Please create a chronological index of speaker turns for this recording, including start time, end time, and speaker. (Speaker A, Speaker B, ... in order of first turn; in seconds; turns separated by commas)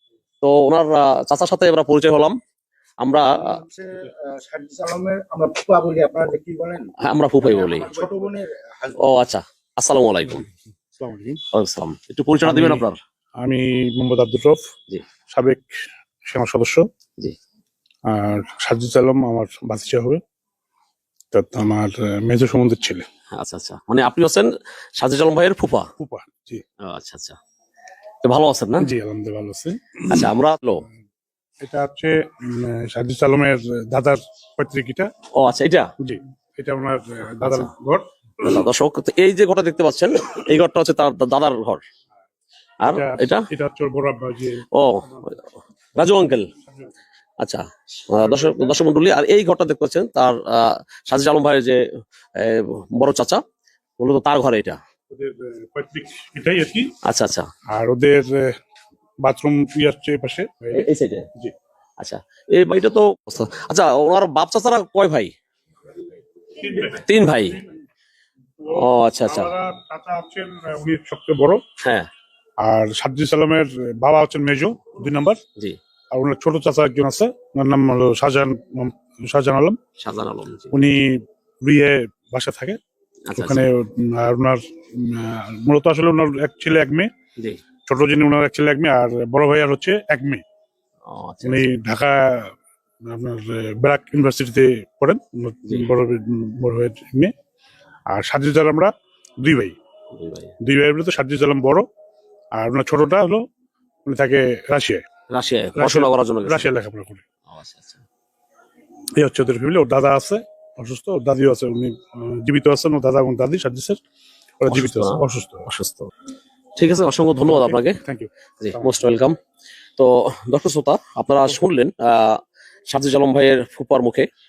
Speaker A: 0.4-2.3, Speaker A: 3.0-3.5, Speaker B: 4.4-6.9, Speaker A: 7.0-8.0, Speaker B: 8.3-8.9, Speaker A: 9.0-10.4, Speaker C: 11.0-11.4, Speaker A: 11.5-13.0, Speaker C: 12.4-12.8, Speaker C: 13.4-14.6, Speaker C: 15.3-15.7, Speaker C: 16.2-16.9, Speaker C: 18.1-20.2, Speaker C: 21.3-23.1, Speaker A: 23.3-25.9, Speaker C: 26.0-26.6, Speaker A: 26.8-27.4, Speaker A: 28.2-28.9, Speaker C: 28.8-30.3, Speaker A: 30.1-30.8, Speaker C: 31.6-35.1, Speaker A: 35.4-35.9, Speaker C: 36.0-38.6, Speaker A: 37.4-37.7, Speaker A: 38.4-41.8, Speaker A: 42.8-43.4, Speaker C: 42.9-44.6, Speaker A: 44.7-45.4, Speaker A: 46.0-46.5, Speaker A: 47.4-51.8, Speaker C: 48.2-48.7, Speaker A: 52.4-53.4, Speaker A: 54.0-54.8, Speaker C: 55.1-56.9, Speaker A: 57.1-57.5, Speaker C: 57.7-58.5, Speaker C: 59.2-61.5, Speaker A: 60.7-61.2, Speaker A: 62.0-65.3, Speaker C: 66.6-67.0, Speaker A: 66.9-67.6, Speaker C: 68.6-71.6, Speaker A: 68.7-69.5, Speaker C: 72.7-75.4, Speaker C: 76.1-79.8, Speaker A: 80.0-80.7, Speaker C: 80.7-82.8, Speaker A: 83.3-83.6, Speaker C: 83.3-87.1, Speaker C: 87.9-90.4, Speaker A: 91.0-91.7, Speaker C: 91.4-92.5, Speaker C: 93.0-97.3, Speaker C: 98.1-98.9, Speaker C: 99.4-99.8, Speaker A: 100.1-100.5, Speaker C: 100.6-101.9, Speaker C: 102.6-103.5, Speaker C: 104.0-105.0, Speaker A: 105.3-106.7, Speaker C: 105.8-107.2, Speaker A: 107.5-108.0, Speaker C: 109.2-114.0, Speaker C: 114.6-115.7, Speaker A: 114.7-116.1, Speaker A: 116.8-118.0, Speaker C: 117.4-118.9, Speaker A: 118.6-119.3, Speaker A: 120.0-122.4, Speaker A: 122.9-124.3